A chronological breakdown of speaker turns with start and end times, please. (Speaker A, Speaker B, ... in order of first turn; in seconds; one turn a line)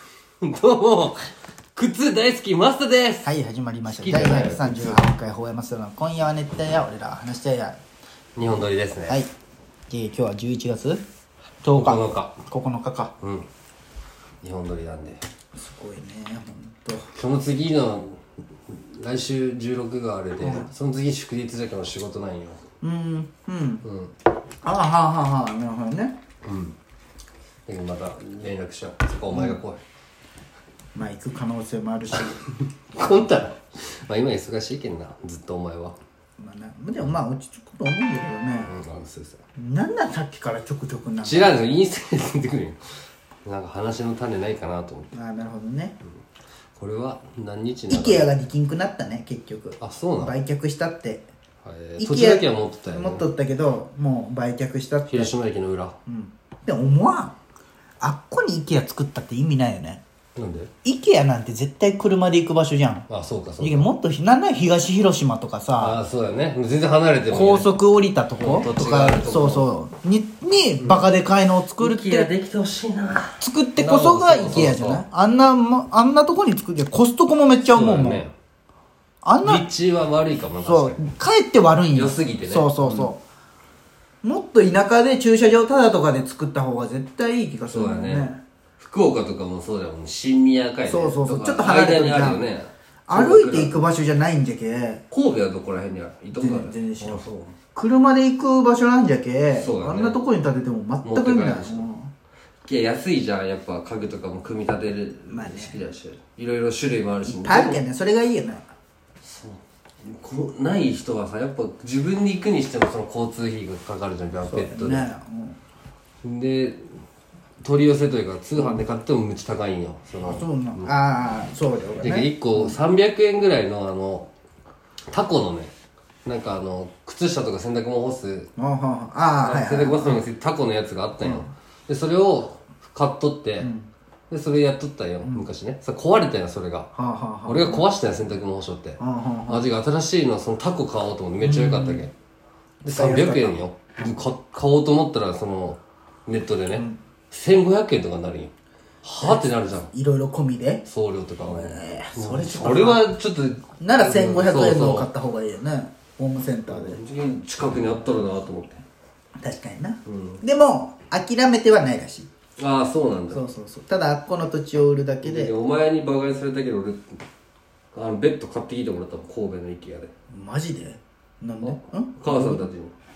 Speaker A: 0.4-1.2
Speaker A: 1.8-3.3
Speaker B: 3.2-7.8
Speaker A: 3.9-5.0
Speaker A: 8.3-9.2
Speaker B: 9.9-11.0
Speaker B: 11.6-13.1
Speaker A: 11.7-12.4
Speaker A: 13.2-13.5
Speaker A: 14.4-15.2
Speaker B: 15.6-17.1
Speaker A: 17.1-22.6
Speaker B: 20.4-20.7
Speaker B: 22.8-23.8
Speaker A: 23.8-24.1
Speaker B: 24.6-26.1
Speaker A: 26.4-26.8
Speaker A: 27.7-29.8
Speaker B: 29.3-29.6
Speaker B: 30.9-32.4
Speaker A: 32.1-36.0
Speaker B: 36.4-38.7
Speaker A: 38.5-39.4
Speaker B: 39.5-41.5
Speaker A: 41.2-42.8
Speaker A: 43.4-45.1
Speaker B: 45.1-46.0
Speaker A: 46.8-48.3
Speaker B: 47.9-51.3
Speaker A: 49.8-50.4
Speaker A: 51.6-53.2
Speaker B: 52.0-55.3
Speaker A: 55.1-56.0
Speaker B: 56.1-57.4
Speaker B: 58.0-60.0
Speaker A: 60.4-60.7
Speaker B: 60.8-63.1
Speaker A: 63.1-63.9
Speaker B: 63.6-66.0
Speaker A: 65.8-67.7
Speaker B: 67.3-72.3
Speaker A: 68.4-69.7
Speaker A: 70.8-71.1
Speaker A: 71.8-75.0
Speaker B: 73.4-78.2
Speaker A: 77.7-78.3
Speaker B: 79.2-79.6
Speaker A: 79.4-81.0
Speaker B: 80.6-83.2
Speaker A: 81.9-83.1
Speaker B: 84.2-88.4
Speaker A: 87.7-93.8
Speaker B: 90.8-92.4
Speaker B: 93.1-95.0
Speaker A: 95.1-97.5
Speaker B: 96.3-102.1
Speaker A: 99.5-100.2
Speaker A: 101.0-101.9
Speaker A: 102.7-107.8
Speaker B: 105.3-105.8
Speaker B: 107.2-108.7
Speaker A: 109.2-115.1
Speaker B: 114.4-115.6
Speaker A: 116.2-116.9
Speaker A: 117.6-120.9
Speaker B: 120.2-122.8
Speaker A: 122.0-124.3
Speaker A: 125.1-125.7
Speaker A: 126.2-128.5
Speaker B: 128.6-130.2
Speaker A: 129.4-133.7
Speaker B: 131.2-131.5
Speaker B: 133.6-133.9
Speaker A: 134.3-136.9
Speaker B: 136.9-137.8
Speaker A: 137.4-142.1
Speaker B: 139.0-139.7
Speaker B: 141.4-142.1
Speaker A: 142.8-148.5
Speaker B: 142.8-143.6
Speaker A: 149.0-149.9
Speaker B: 149.2-150.8
Speaker A: 150.8-155.1
Speaker B: 151.4-153.1
Speaker B: 153.8-157.0
Speaker A: 156.7-158.8
Speaker B: 159.4-162.3
Speaker A: 160.1-160.4
Speaker A: 162.6-163.4
Speaker B: 163.3-165.5
Speaker A: 165.2-167.2
Speaker A: 167.9-170.1
Speaker B: 170.3-172.7
Speaker A: 171.6-172.9